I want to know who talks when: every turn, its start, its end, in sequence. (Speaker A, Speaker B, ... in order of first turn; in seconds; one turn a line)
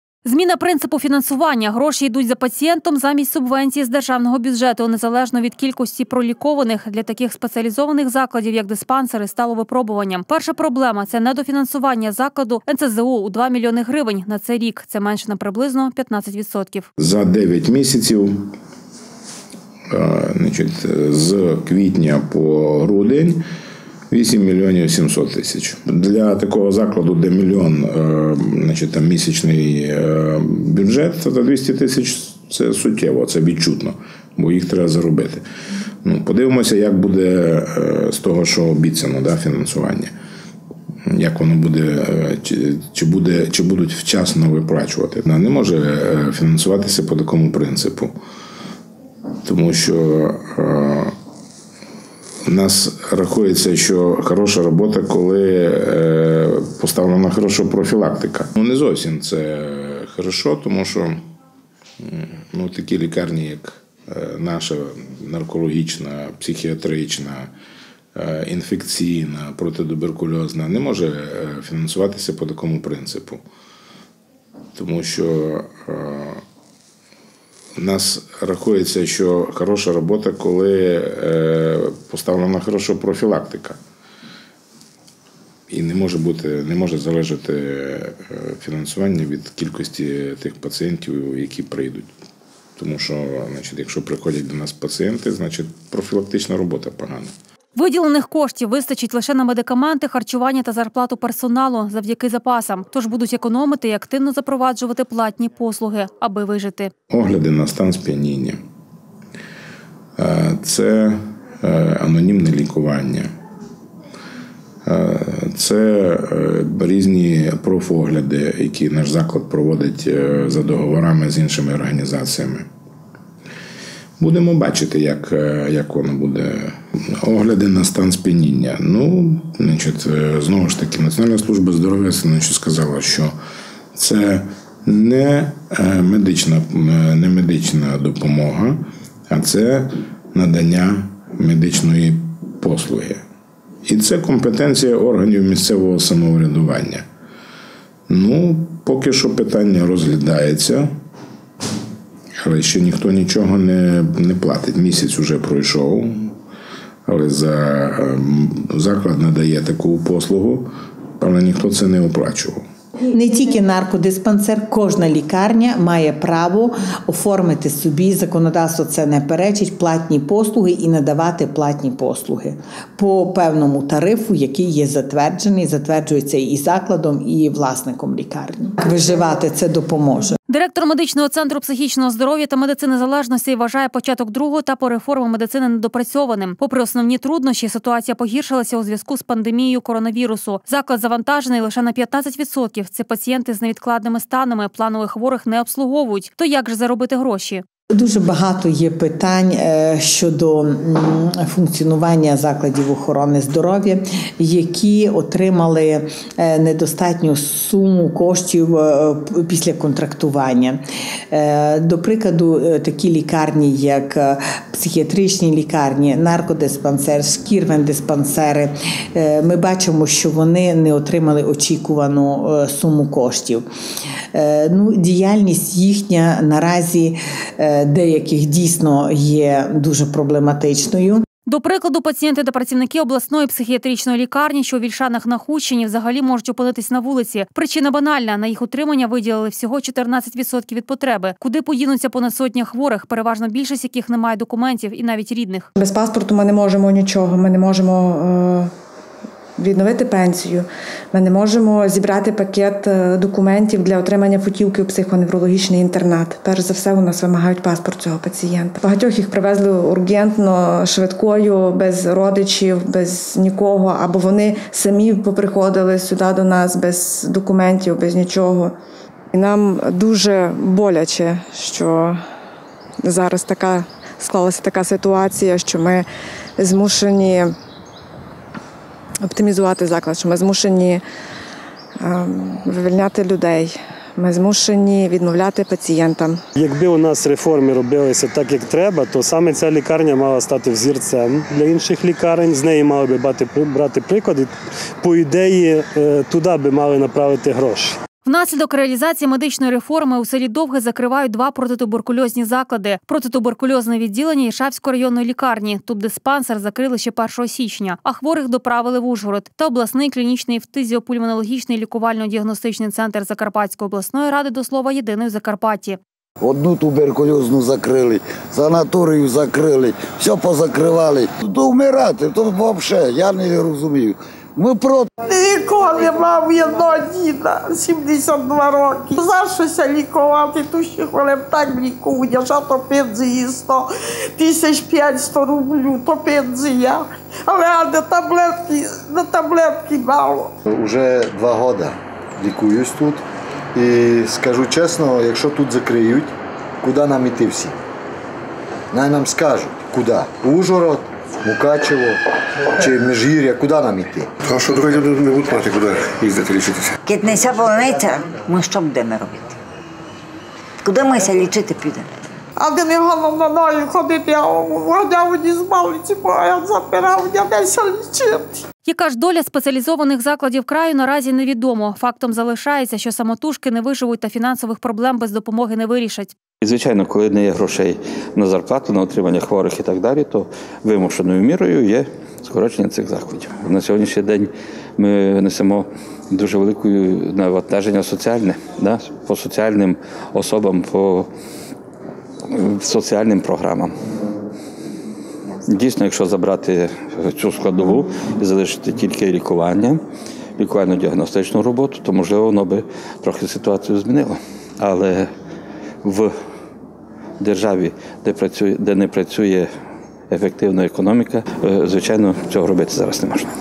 Speaker A: 0.2-16.9
Speaker B: 17.0-18.5
Speaker B: 19.9-23.4
Speaker B: 24.1-35.4
Speaker B: 36.0-40.1
Speaker B: 41.0-48.1
Speaker B: 49.4-51.1
Speaker B: 52.5-61.2
Speaker B: 62.0-67.5
Speaker B: 68.2-73.4
Speaker B: 74.8-76.4
Speaker B: 77.8-83.8
Speaker B: 85.7-92.1
Speaker B: 92.8-97.3
Speaker A: 97.8-106.9
Speaker B: 107.1-108.6
Speaker B: 110.2-113.3
Speaker B: 114.9-122.7
Speaker B: 124.2-133.3
Speaker B: 133.9-143.2
Speaker B: 143.8-147.1
Speaker B: 148.1-150.9
Speaker B: 152.4-156.3
Speaker B: 157.1-162.6
Speaker C: 163.1-180.4
Speaker A: 180.5-197.6
Speaker C: 197.9-223.7
Speaker C: 224.3-231.2
Speaker A: 231.5-245.7
Speaker D: 245.8-248.7
Speaker D: 249.6-268.7
Speaker D: 269.3-272.2
Speaker D: 273.0-276.0
Speaker D: 276.6-277.5
Speaker D: 279.2-281.0
Speaker D: 282.0-286.4
Speaker E: 286.6-294.5
Speaker E: 295.0-298.0
Speaker A: 298.2-316.0
Speaker F: 316.4-325.1
Speaker G: 325.3-340.5
Speaker H: 340.7-343.2
Speaker H: 343.8-347.8
Speaker H: 348.9-352.2
Speaker H: 352.7-354.3
Speaker I: 354.6-356.9
Speaker J: 357.0-359.6
Speaker J: 360.8-362.1
Speaker G: 362.6-368.6
Speaker A: 368.9-376.3
Speaker K: 376.6-391.3
Speaker K: 392.5-393.9
Speaker K: 395.7-400.0
Speaker K: 400.6-405.3
Speaker K: 406.0-406.3
Speaker K: 407.4-409.7
Speaker K: 410.3-413.5